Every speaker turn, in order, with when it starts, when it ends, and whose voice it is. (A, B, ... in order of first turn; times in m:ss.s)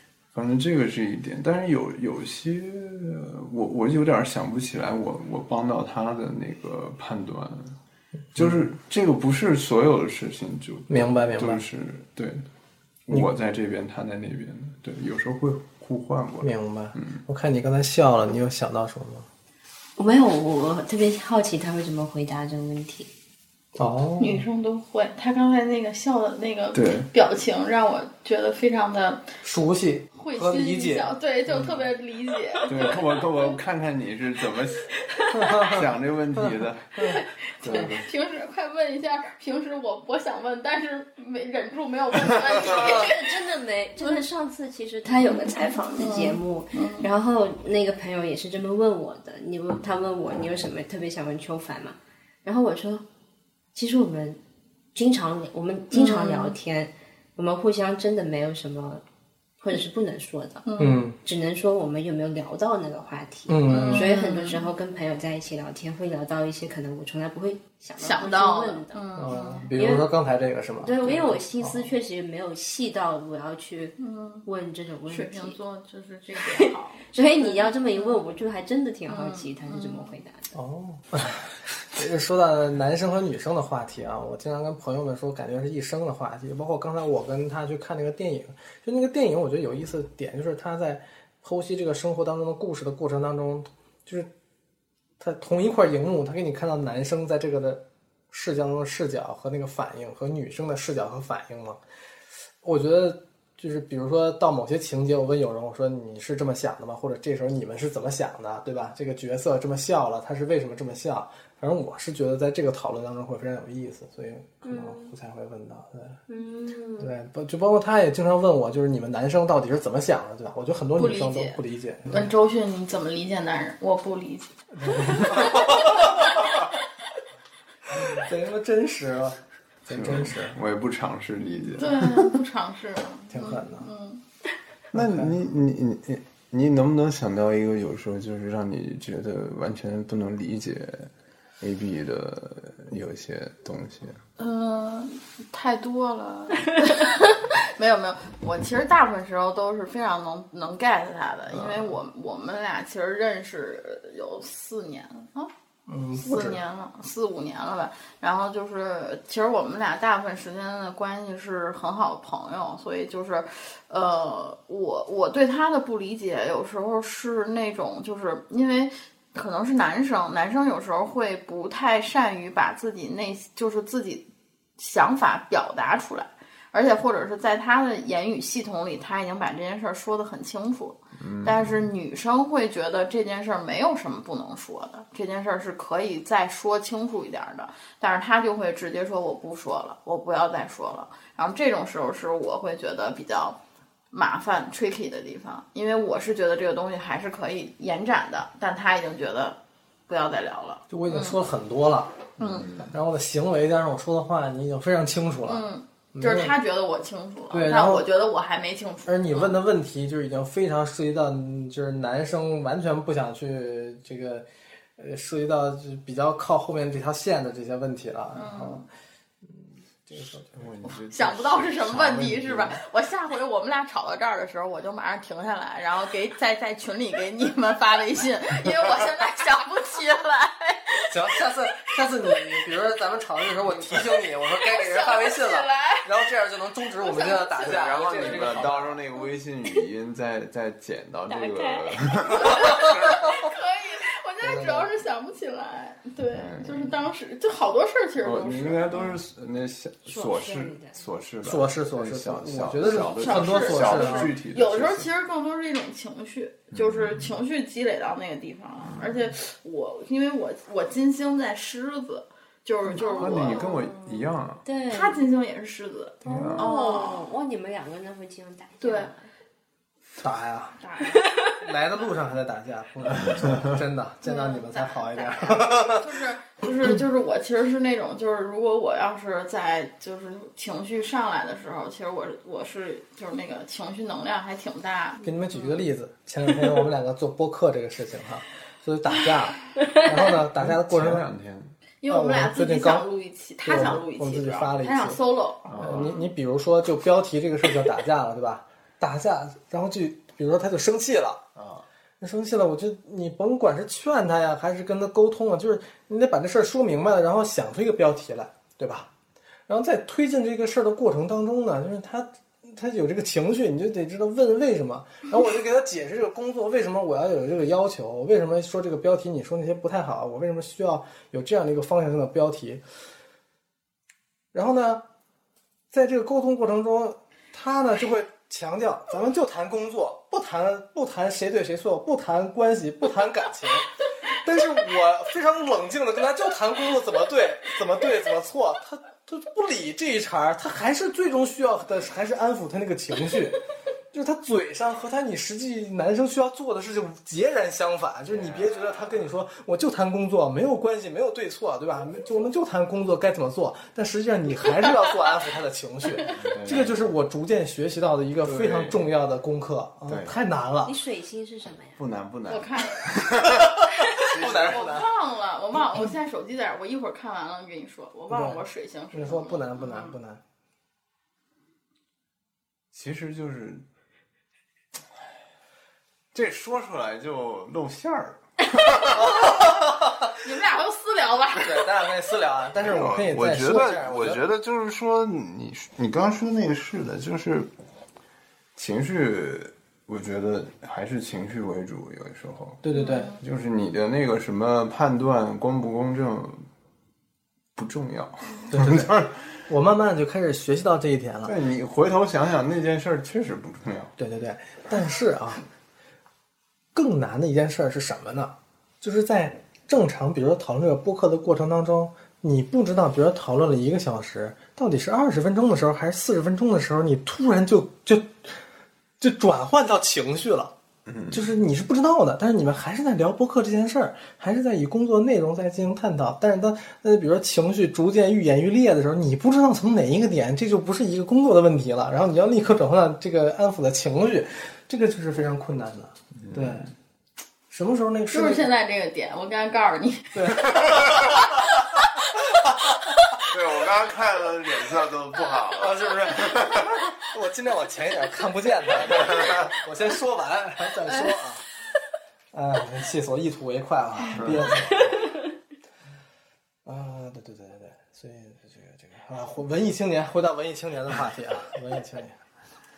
0:00.3-0:07.8 A
0:08.3-0:12.4 A
0:10.9-0:11.6 B
0:13.1-0:17.2 A
0:16.4-0:19.3 B
0:20.0-0:23.1 C
0:23.8-0:24.4 B
0:24.2-0:29.3 D
0:26.7-0:27.1 A
0:29.4-0:31.8 B
0:30.1-0:33.5 D
0:32.7-0:34.9 A
0:35.1-0:35.6 D
0:35.3-0:37.2 B
0:35.5-0:38.1 A
0:37.1-0:43.4 D
0:42.6-0:53.0 C
0:46.0-0:47.1 D
0:53.7-0:54.4 C
0:54.9-0:59.0 C
0:55.9-0:56.6 D
0:59.6-1:10.1 C
1:00.6-1:01.0 D
1:00.8-1:01.2 B
1:03.5-1:04.1 B
1:03.7-1:04.6 D
1:08.0-1:09.6 D
1:09.2-1:11.8 B
1:10.8-1:15.6 C
1:14.0-1:14.4 D
1:15.1-1:18.2 D
1:16.3-1:20.5 C
1:19.1-1:20.1 D
1:20.5-1:34.3 B
1:35.2-1:41.8 B
1:42.6-1:56.2 B
1:54.6-1:55.1 C
1:56.3-1:57.1 C
1:57.0-2:02.3 B
2:01.0-2:06.6 D
2:04.7-2:06.2 B
2:08.0-2:10.6 B
2:09.9-2:12.3 A
2:11.4-2:14.2 D
2:13.3-2:13.9 B
2:14.9-2:24.2 A
2:14.9-2:15.3 B
2:24.4-2:35.5 D
2:31.5-2:32.0 A
2:35.9-2:36.6 B
2:36.2-2:54.2 D
2:54.8-3:13.6 D
3:01.2-3:01.9 A
3:14.1-3:21.4 D
3:20.9-3:22.2 B
3:22.4-3:22.9 A
3:22.4-3:22.7 D
3:22.8-3:26.5 B
3:25.5-3:29.6 D
3:27.5-3:28.0 B
3:29.1-3:38.8 B
3:38.3-3:38.8 D
3:40.1-3:42.8 A
3:40.1-3:40.6 B
3:40.8-3:51.1 D
3:51.1-3:59.0 B
3:54.5-3:56.1 D
3:57.0-3:58.6 D
3:57.6-4:03.2 A
4:01.3-4:02.0 C
4:02.4-4:09.2 D
4:04.4-4:04.9 B
4:06.3-4:06.9 A
4:08.2-4:15.1 A
4:10.1-4:11.0 C
4:11.4-4:14.3 B
4:12.9-4:24.0 D
4:16.7-4:17.3 A
4:18.8-4:19.3 A
4:22.9-4:23.8 C
4:23.2-4:24.6 A
4:24.6-4:25.2 C
4:24.9-4:27.3 D
4:26.2-4:26.7 A
4:26.5-4:29.3 C
4:28.8-4:29.1 D
4:30.2-4:30.8 B
4:30.8-4:31.3 D
4:31.6-4:36.0 B
4:33.2-4:33.6 A
4:34.2-4:45.8 D
4:45.2-4:51.3 B
4:50.6-4:51.7 A
4:52.0-4:56.3 D
4:52.1-4:53.1 B
4:53.6-4:55.2 B
4:55.7-4:56.1 A
4:55.8-5:01.4 B
5:01.5-5:01.8 A
5:02.2-5:09.1 B
5:09.7-5:22.8 B
5:24.5-5:25.0 B
5:25.9-5:43.6 B
5:44.1-6:00.9 B
5:48.3-5:49.0 A
5:56.3-5:57.0 A
5:58.4-5:59.0 A
6:00.1-6:00.4 A
6:00.8-6:02.0 C
6:02.0-6:04.8 A
6:02.5-6:03.3 D
6:04.0-6:05.1 B
6:04.2-6:10.1 D
6:08.3-6:08.6 B
6:09.1-6:10.4 B
6:12.9-6:13.8 A
6:16.3-6:19.5 A
6:19.2-6:20.3 B
6:20.4-6:21.8 D
6:21.5-6:24.4 B
6:22.8-6:27.7 A
6:28.8-6:32.8 A
6:32.8-6:33.3 B
6:32.9-6:33.4 D
6:33.4-6:36.6 A
6:37.8-6:39.4 A
6:38.7-6:41.5 B
6:41.4-6:44.1 A
6:44.2-6:45.6 B
6:46.9-6:58.6 B
6:59.2-7:00.7 B
7:01.0-7:01.4 A
7:01.3-7:16.9 B
7:16.4-7:16.9 A
7:17.7-7:18.7 B
7:18.3-7:20.7 D
7:20.3-7:21.2 B
7:23.5-7:27.0 A
7:25.7-7:31.6 B
7:32.5-7:35.2 B
7:34.3-7:34.8 A
7:36.8-7:42.4 B